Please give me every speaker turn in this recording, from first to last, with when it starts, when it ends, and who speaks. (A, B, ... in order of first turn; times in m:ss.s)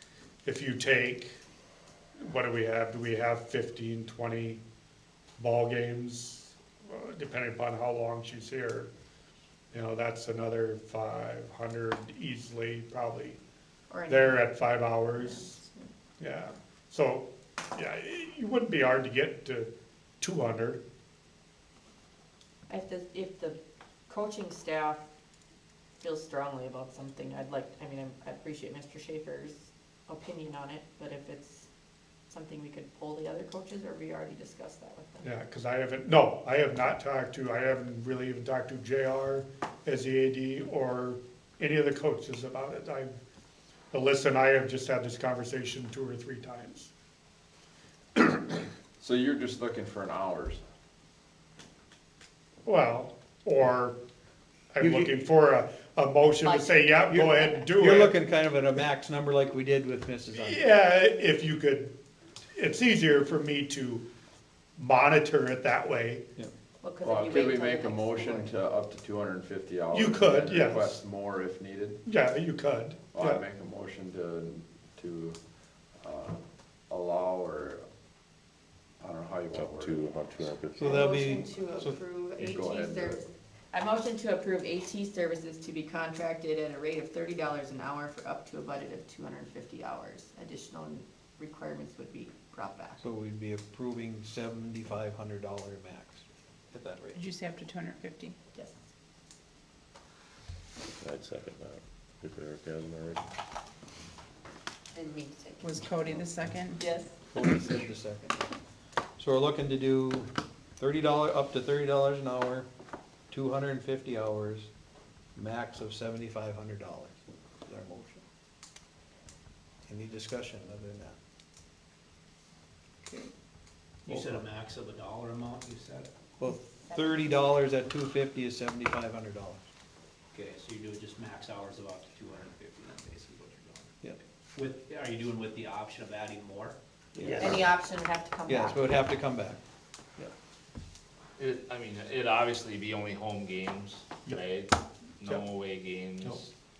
0:00.4-0:01.4 A
0:02.2-0:04.6 A
0:05.4-0:08.9 A
0:09.7-0:13.4 A
0:13.9-0:15.9 B
0:14.1-0:15.6 A
0:16.2-0:19.7 A
0:20.2-0:20.8 A
0:22.7-0:25.0 B
0:26.0-0:31.7 B
0:32.3-0:35.3 B
0:35.2-0:43.1 A
0:43.9-0:46.9 A
0:49.0-0:50.6 C
0:52.6-0:54.0 A
0:54.7-0:58.2 A
0:54.8-0:55.1 D
0:56.4-0:56.9 B
0:57.1-1:00.7 D
1:00.4-1:01.9 A
1:02.5-1:04.0 A
1:04.8-1:06.2 A
1:06.8-1:08.5 B
1:07.0-1:12.0 C
1:09.9-1:11.0 A
1:12.1-1:13.4 A
1:13.1-1:15.4 C
1:16.0-1:17.8 C
1:19.0-1:20.1 C
1:19.5-1:21.0 E
1:20.8-1:22.0 D
1:20.8-1:33.0 B
1:22.4-1:23.2 C
1:33.0-1:37.2 D
1:37.2-1:38.4 F
1:40.9-1:43.2 E
1:44.9-1:45.6 B
1:45.6-1:46.8 F
1:46.8-1:47.1 B
1:47.3-1:48.5 D
1:49.2-1:52.7 D
1:53.3-1:54.7 D
1:55.4-1:58.2 D
1:59.9-2:01.2 D
2:04.0-2:06.1 G
2:04.1-2:04.4 D
2:06.4-2:09.6 D
2:06.9-2:07.3 B
2:10.3-2:13.9 G
2:14.5-2:17.5 G
2:17.2-2:17.7 D
2:17.3-2:18.9 B
2:18.5-2:19.6 D
2:21.4-2:26.5 H